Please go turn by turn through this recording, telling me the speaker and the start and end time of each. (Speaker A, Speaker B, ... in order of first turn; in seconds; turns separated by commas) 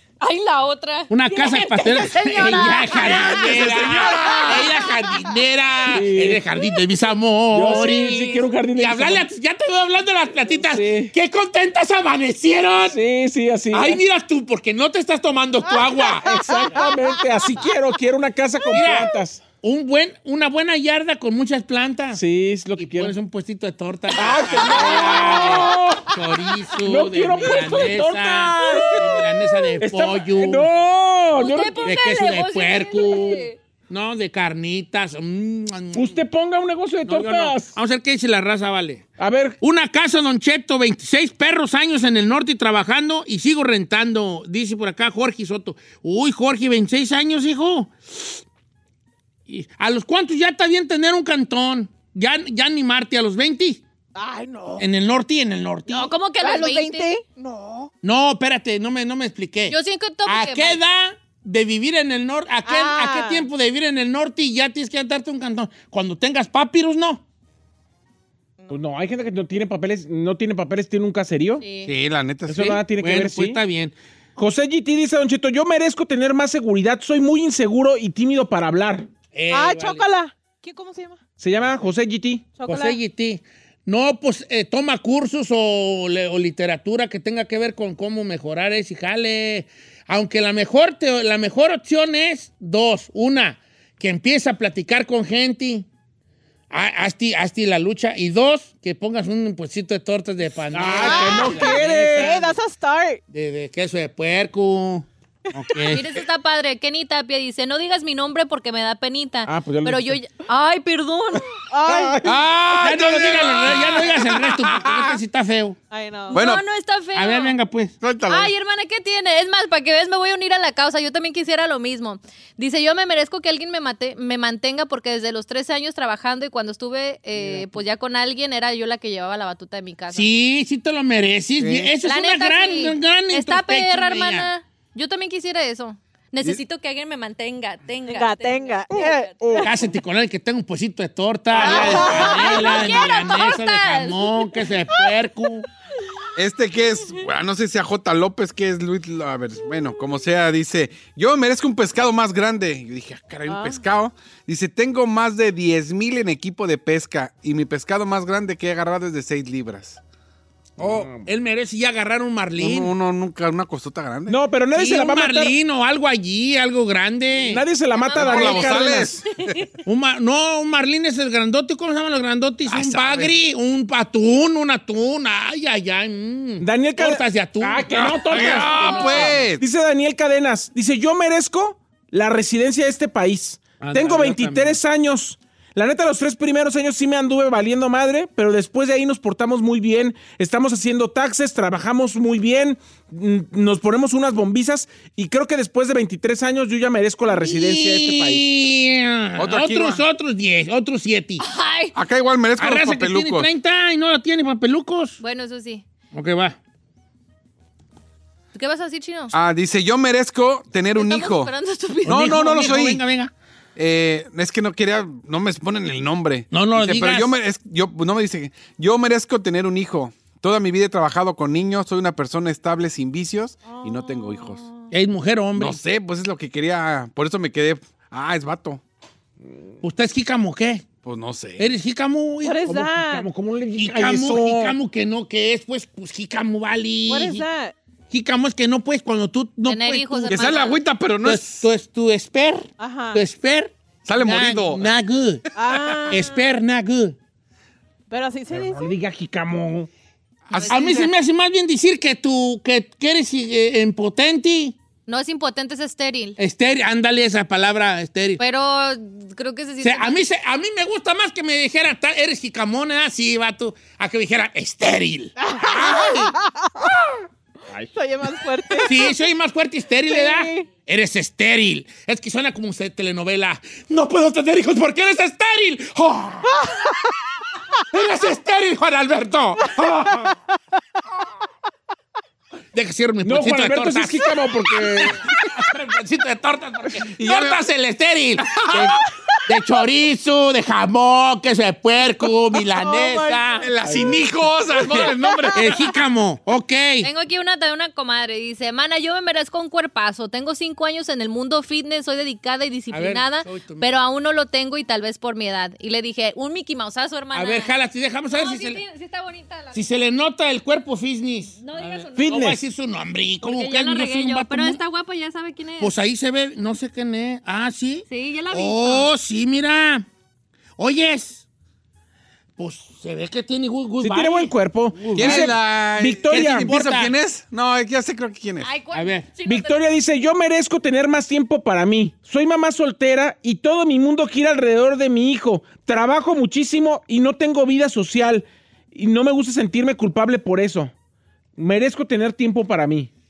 Speaker A: 0.2-4.9, Speaker B: 1.1-13.0, Speaker C: 3.4-4.5, Speaker D: 5.8-6.4, Speaker D: 7.5-9.2, Speaker A: 7.7-8.4, Speaker D: 10.5-11.1, Speaker D: 12.9-14.0, Speaker B: 13.7-16.7, Speaker E: 16.0-17.2, Speaker D: 16.2-19.4, Speaker B: 18.7-22.2, Speaker D: 22.1-23.1, Speaker B: 22.8-30.7, Speaker D: 24.1-26.2, Speaker A: 25.2-25.5, Speaker D: 26.7-31.9, Speaker A: 31.4-33.6, Speaker B: 31.8-36.2, Speaker D: 35.9-37.7, Speaker B: 37.0-39.0, Speaker D: 39.2-39.6, Speaker B: 39.6-48.3, Speaker B: 49.5-53.8, Speaker E: 54.1-54.8, Speaker B: 54.8-56.1, Speaker A: 55.9-57.1, Speaker E: 56.4-57.9, Speaker B: 58.0-67.2, Speaker A: 59.7-60.8, Speaker E: 62.6-63.5, Speaker D: 68.7-71.6, Speaker A: 71.6-71.9, Speaker C: 71.8-72.8, Speaker D: 72.5-73.6, Speaker B: 72.6-73.9, Speaker D: 74.3-79.1, Speaker B: 79.3-80.1, Speaker E: 79.5-81.2, Speaker D: 81.4-82.5, Speaker E: 82.6-83.0, Speaker B: 82.6-95.9, Speaker B: 96.7-102.5, Speaker D: 100.7-102.5, Speaker E: 100.9-103.2, Speaker B: 103.3-106.1, Speaker A: 105.9-111.5, Speaker D: 109.5-110.2, Speaker E: 111.7-112.2, Speaker D: 111.8-112.3, Speaker C: 112.2-115.2, Speaker B: 112.7-115.8, Speaker A: 113.7-114.1, Speaker E: 115.9-116.4, Speaker A: 116.3-117.5, Speaker C: 116.3-116.6, Speaker B: 117.1-117.9, Speaker C: 118.0-118.5, Speaker A: 118.3-130.3, Speaker B: 130.1-134.5, Speaker C: 131.6-131.9, Speaker A: 132.0-139.6, Speaker E: 138.1-139.7, Speaker B: 139.6-145.7, Speaker E: 141.6-142.9, Speaker A: 141.6-144.5, Speaker C: 146.3-160.0, Speaker E: 153.5-153.8, Speaker C: 160.8-161.1, Speaker D: 160.8-161.2, Speaker B: 161.2-162.9, Speaker C: 162.6-164.4, Speaker D: 164.3-165.5, Speaker B: 164.7-167.6, Speaker D: 167.5-169.2, Speaker A: 167.9-169.7, Speaker C: 168.1-169.6, Speaker B: 169.8-179.5, Speaker C: 172.7-173.3, Speaker D: 176.6-198.4, Speaker C: 177.9-179.6, Speaker B: 183.8-184.8, Speaker B: 197.3-201.4, Speaker C: 199.4-200.0, Speaker A: 201.4-201.9, Speaker C: 201.9-203.5, Speaker B: 202.6-205.2, Speaker A: 205.2-205.8, Speaker B: 206.1-206.6, Speaker A: 208.5-209.3, Speaker C: 209.3-211.5, Speaker A: 210.9-212.3, Speaker C: 212.0-213.0, Speaker B: 212.1-213.3, Speaker C: 213.8-224.7, Speaker B: 216.5-217.3, Speaker E: 223.6-224.9, Speaker B: 224.9-225.8, Speaker C: 225.6-228.8, Speaker B: 229.8-230.9, Speaker C: 231.0-231.7, Speaker B: 231.6-233.0, Speaker E: 232.4-233.3, Speaker D: 232.7-234.7, Speaker B: 233.8-237.4, Speaker E: 237.1-237.7, Speaker B: 238.1-240.6, Speaker A: 239.7-240.8, Speaker C: 240.3-241.7, Speaker B: 241.2-245.4, Speaker E: 242.8-243.2, Speaker C: 244.0-244.9, Speaker E: 245.6-246.4, Speaker C: 245.7-246.1, Speaker B: 246.1-247.2, Speaker E: 248.1-248.9, Speaker D: 248.5-249.9, Speaker C: 250.5-251.1, Speaker B: 250.7-254.8, Speaker A: 255.1-256.4, Speaker B: 256.4-258.4, Speaker A: 258.4-260.2, Speaker B: 259.8-266.3, Speaker E: 265.4-267.0, Speaker E: 267.7-269.1, Speaker B: 268.8-276.7, Speaker E: 270.1-270.7, Speaker B: 277.9-280.2, Speaker B: 282.7-293.7, Speaker D: 283.2-285.2, Speaker C: 287.1-287.6, Speaker C: 288.4-289.0, Speaker E: 292.8-293.6, Speaker C: 293.6-295.9, Speaker B: 294.9-297.1, Speaker A: 297.0-307.7, Speaker B: 302.9-303.9, Speaker B: 307.3-308.8, Speaker A: 308.3-309.9, Speaker B: 309.7-314.8, Speaker A: 311.6-312.5, Speaker D: 312.2-312.6, Speaker A: 313.4-315.9, Speaker B: 315.8-320.0, Speaker A: 318.1-319.1, Speaker B: 320.8-321.4, Speaker B: 322.6-325.6, Speaker D: 324.0-326.7, Speaker C: 325.1-328.7, Speaker B: 326.3-327.1, Speaker A: 328.6-329.9, Speaker B: 328.9-329.3, Speaker D: 329.4-340.9, Speaker D: 341.6-343.1